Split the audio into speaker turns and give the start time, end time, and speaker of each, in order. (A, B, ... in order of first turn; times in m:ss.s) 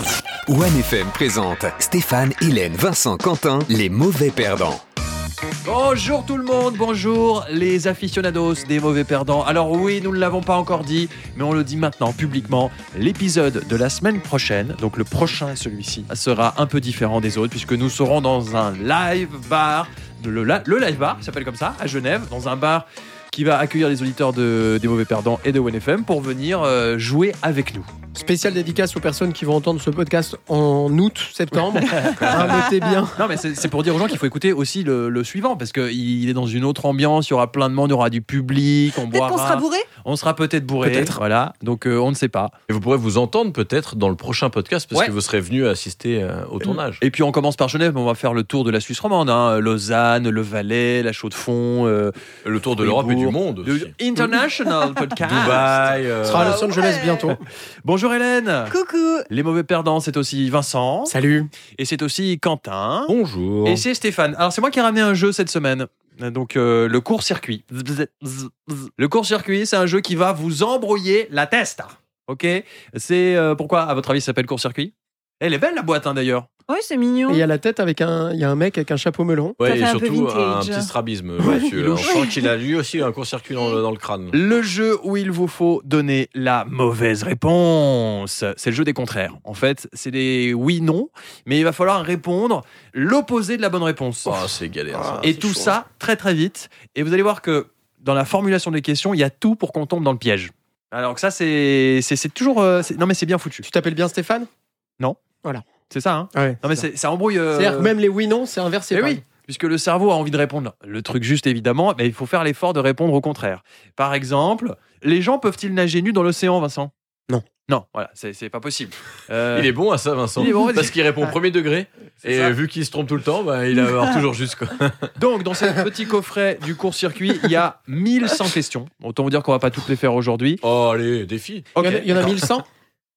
0:00.5-0:04.8 A
0:05.6-0:27.9 B
0:28.1-0:33.3 C
0:31.9-0:32.6 B
0:33.2-0:42.5 B
0:39.1-0:39.9 D
0:40.8-0:41.2 C
0:42.7-0:47.0 E
0:46.6-0:52.1 B
0:52.4-0:53.9 E
0:52.8-0:56.0 B
0:55.2-0:56.6 E
0:56.2-0:57.4 C
0:56.3-0:57.3 D
0:57.8-0:58.7 B
0:58.7-0:59.3 D
0:59.3-1:01.1 B
1:01.1-1:01.5 C
1:01.8-1:03.1 B
1:03.1-1:03.8 E
1:03.6-1:16.5 B
1:16.7-1:17.4 D
1:17.3-1:19.6 C
1:19.6-1:24.4 E
1:19.6-1:20.9 D
1:21.7-1:22.1 B
1:22.0-1:22.3 D
1:24.3-1:34.4 B
1:34.2-1:35.7 E
1:34.9-1:35.4 C
1:35.2-1:43.6 B
1:43.6-1:44.5 C
1:45.9-1:47.9 B
1:46.3-1:46.8 C
1:47.5-1:49.2 C
1:48.9-1:56.9 B
1:57.7-1:59.7 B
1:59.5-2:05.2 E
2:00.4-2:00.9 B
2:02.2-2:02.6 B
2:05.2-2:10.6 B
2:10.6-2:11.7 E
2:11.7-2:12.3 B
2:11.8-2:12.7 C